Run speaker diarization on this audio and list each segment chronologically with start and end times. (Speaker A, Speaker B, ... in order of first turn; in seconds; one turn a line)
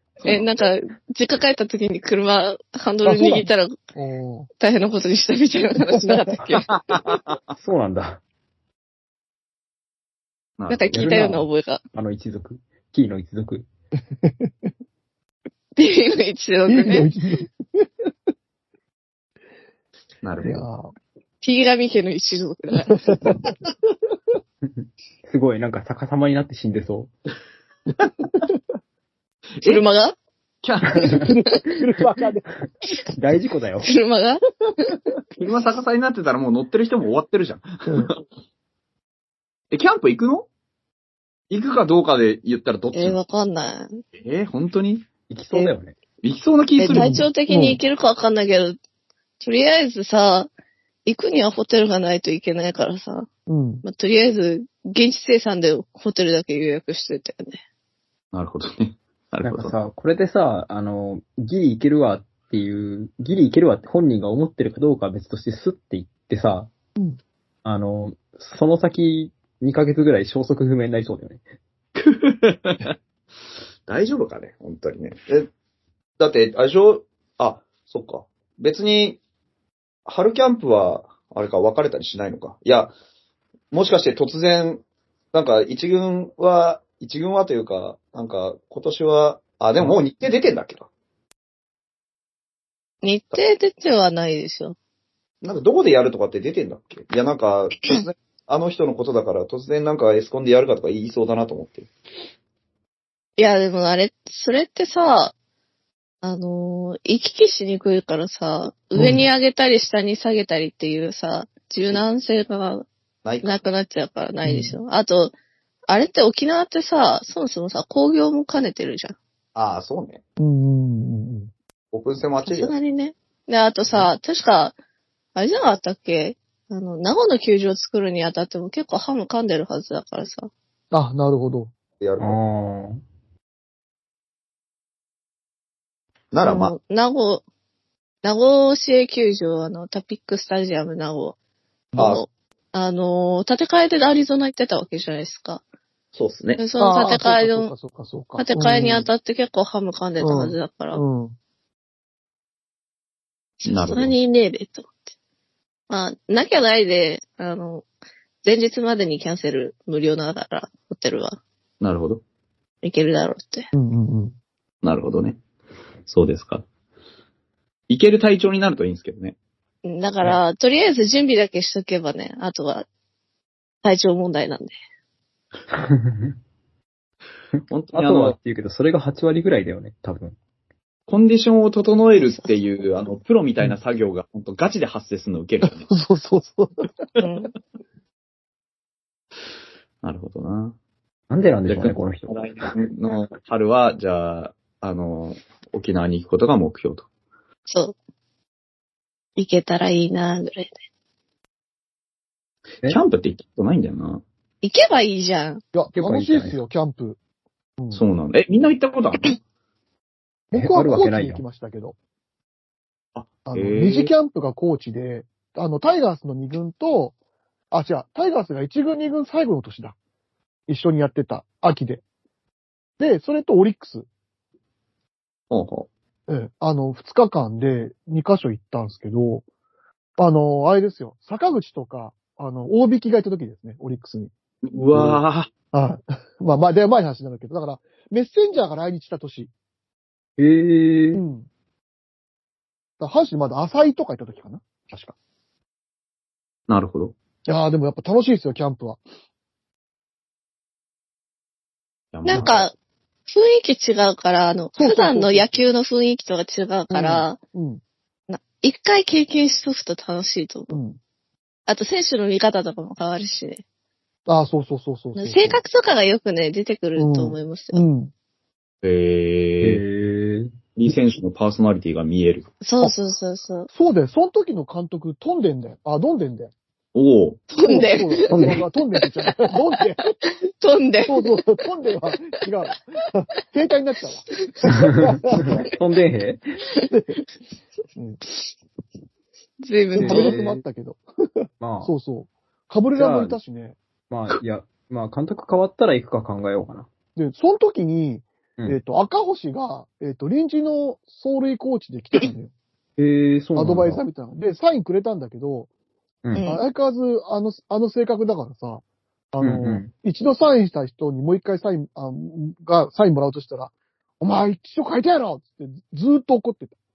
Speaker A: 0.2-0.5
Speaker B: 0.2-3.8
Speaker C: 3.0-4.5
Speaker B: 4.6-6.7
Speaker A: 6.7-7.4
Speaker D: 7.6-8.2
Speaker A: 10.6-11.0
Speaker B: 10.7-11.8
Speaker D: 10.9-13.7
Speaker C: 14.2-14.5
Speaker B: 15.8-17.1
Speaker C: 16.7-18.1
Speaker A: 20.2-20.6
Speaker C: 20.4-20.9
Speaker B: 21.4-23.1
Speaker C: 22.9-23.7
Speaker D: 25.2-27.1
Speaker C: 27.9-28.6
Speaker B: 29.6-30.1
Speaker A: 30.6-31.2
Speaker C: 31.1-32.7
Speaker D: 33.1-33.9
Speaker B: 33.8-34.9
Speaker A: 35.4-38.2
Speaker C: 37.9-38.1
Speaker A: 39.7-40.5
Speaker A: 41.5-43.2
Speaker B: 42.9-44.0
Speaker A: 44.2-45.1
Speaker D: 45.3-46.0
Speaker A: 46.2-47.2
Speaker B: 46.8-48.8
Speaker C: 46.9-47.8
Speaker B: 49.4-50.5
Speaker B: 51.0-53.3
Speaker C: 53.5-53.8
Speaker B: 53.8-57.6
Speaker A: 58.3-59.7
Speaker D: 59.4-66.7
Speaker D: 67.6-71.4
Speaker A: 72.0-72.9
Speaker A: 73.9-75.5
Speaker A: 76.2-79.2
Speaker A: 80.0-82.9
Speaker A: 83.7-90.9
Speaker B: 93.0-94.8
Speaker A: 95.4-101.9
Speaker B: 103.4-105.3
Speaker B: 106.2-112.8
Speaker C: 109.0-109.2
Speaker A: 113.2-113.5
Speaker B: 113.4-115.3
Speaker C: 114.4-114.8
Speaker B: 115.9-119.2
Speaker A: 119.5-120.2
Speaker C: 120.4-121.5
Speaker A: 121.9-122.7
Speaker B: 122.4-124.7
Speaker B: 125.3-130.5
Speaker C: 130.9-131.7
Speaker A: 132.0-132.4
Speaker D: 132.2-133.0
Speaker A: 136.3-136.7
Speaker B: 136.4-137.4
Speaker B: 138.2-141.3
Speaker B: 141.9-145.6
Speaker A: 141.9-142.2
Speaker A: 146.1-146.6
Speaker B: 146.6-147.7
Speaker C: 146.8-149.1
Speaker B: 148.4-151.0
Speaker C: 150.2-151.3
Speaker B: 153.6-155.0
Speaker A: 153.6-154.1
Speaker B: 155.9-157.8
Speaker B: 158.4-161.4
Speaker A: 161.8-162.2
Speaker B: 162.8-163.7
Speaker C: 163.7-164.3
Speaker A: 164.8-165.4
Speaker A: 166.1-166.6
Speaker A: 167.9-169.4
Speaker B: 169.8-172.8
Speaker B: 173.8-174.7
Speaker D: 175.7-176.3
Speaker A: 177.7-178.3
Speaker D: 177.9-180.3
Speaker A: 181.1-185.9
Speaker C: 185.6-187.1
Speaker B: 187.2-187.5
Speaker A: 190.0-190.8
Speaker D: 191.3-192.3
Speaker A: 191.7-197.1
Speaker B: 197.7-197.9
Speaker B: 199.3-200.7
Speaker A: 202.8-204.2
Speaker B: 204.6-205.6
Speaker C: 205.7-207.2
Speaker D: 205.9-206.6
Speaker A: 207.9-209.4
Speaker C: 210.5-211.9
Speaker D: 210.5-211.4
Speaker A: 213.1-214.1
Speaker C: 213.4-217.1
Speaker C: 217.7-219.9
Speaker C: 220.7-222.0
Speaker C: 223.0-224.1
Speaker A: 225.5-225.9
Speaker C: 226.3-229.4
Speaker C: 230.2-234.3
Speaker A: 234.6-235.5
Speaker D: 234.9-235.2
Speaker C: 235.7-239.5
Speaker D: 240.4-241.2
Speaker C: 241.1-241.5
Speaker C: 243.0-244.6
Speaker D: 244.9-245.2
Speaker A: 246.7-247.1
Speaker C: 247.5-249.0
Speaker A: 252.1-252.7
Speaker B: 252.2-252.7
Speaker B: 253.3-257.4
Speaker C: 254.7-255.6
Speaker C: 256.9-257.8
Speaker B: 258.3-260.8
Speaker C: 260.7-261.0
Speaker B: 261.7-263.6
Speaker C: 264.3-265.6
Speaker B: 265.1-267.8
Speaker C: 266.9-268.1
Speaker A: 268.8-269.8
Speaker D: 269.6-270.5
Speaker A: 270.8-272.5
Speaker B: 272.6-273.7
Speaker C: 273.7-276.5
Speaker A: 276.9-277.4
Speaker B: 277.5-278.5
Speaker C: 277.6-280.1
Speaker D: 278.3-278.6
Speaker B: 280.2-281.3
Speaker C: 281.1-285.6
Speaker B: 284.4-284.7
Speaker D: 285.3-286.4
Speaker C: 286.9-287.2
Speaker C: 287.9-288.2
Speaker B: 289.6-290.3
Speaker D: 289.9-290.6
Speaker C: 290.0-293.8
Speaker D: 291.6-291.9
Speaker D: 292.9-293.4
Speaker D: 294.1-296.9
Speaker C: 297.1-302.5
Speaker D: 303.0-304.0
Speaker C: 303.6-305.7
Speaker B: 306.4-306.6
Speaker C: 306.4-316.7
Speaker D: 309.4-309.9